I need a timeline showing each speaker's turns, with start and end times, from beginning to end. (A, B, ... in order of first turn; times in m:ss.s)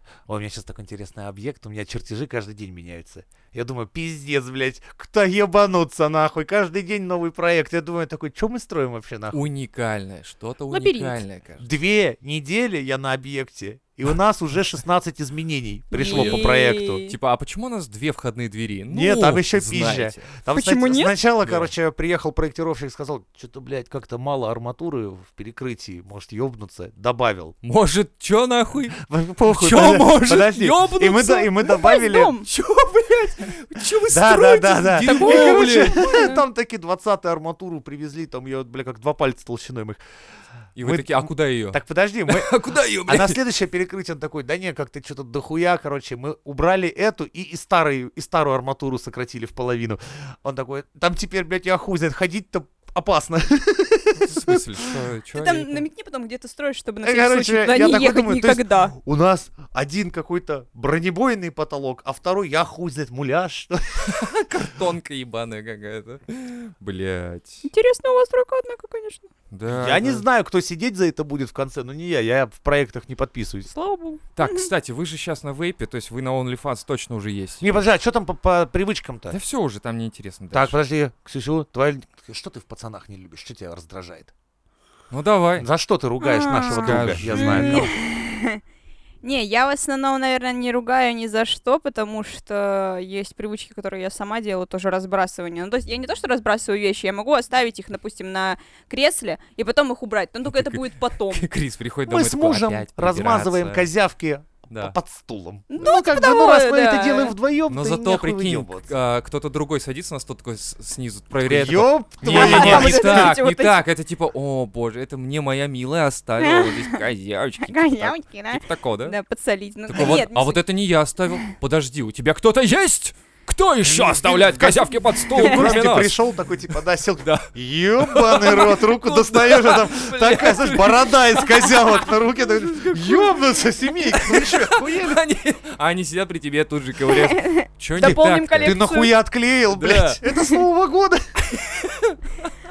0:00.3-0:09.4 A
0:09.3-0:11.6 B
0:10.7-0:11.2 C
0:11.6-0:17.0 A
0:15.9-0:16.4 B
0:15.9-0:17.2 C
0:17.1-0:20.3 B
0:18.9-0:27.5 A
0:20.5-0:21.1 C
0:21.4-0:21.7 B
0:27.6-0:31.5 B
0:29.0-0:32.4 A
0:31.3-0:32.5 C
0:32.4-0:36.4 B
0:34.1-0:40.0 A
0:35.0-0:36.4 C
0:40.7-0:43.4 B
0:40.8-0:54.8 A
0:54.2-0:55.8 B
0:55.3-0:58.9 C
0:57.0-1:04.3 A
1:04.0-1:07.7 B
1:07.7-1:09.3 C
1:09.5-1:10.2 B
1:09.7-1:13.7 A
1:13.7-1:14.7 C
1:14.4-1:17.7 B
1:17.6-1:19.4 A
1:19.3-1:20.8 B
1:20.5-1:24.3 A
1:25.1-1:25.7 B
1:25.6-1:27.9 A
1:26.2-1:28.6 C
1:26.6-1:27.9 B
1:29.2-1:41.4 C
1:40.5-1:43.9 B
1:42.1-1:48.9 A
1:44.7-1:45.0 B
1:45.7-1:47.3 C
1:47.7-1:59.2 B
1:51.4-1:53.3 A
1:52.2-1:53.8 C
1:56.4-1:57.0 C
1:57.6-2:00.6 C
1:59.9-2:06.2 B
2:03.8-2:15.2 A
2:07.2-2:12.1 B
2:12.6-2:13.3 B
2:14.1-2:18.8 B
2:17.0-2:19.1 C
2:18.0-2:21.3 A
2:19.7-2:20.2 B
2:21.6-2:22.5 B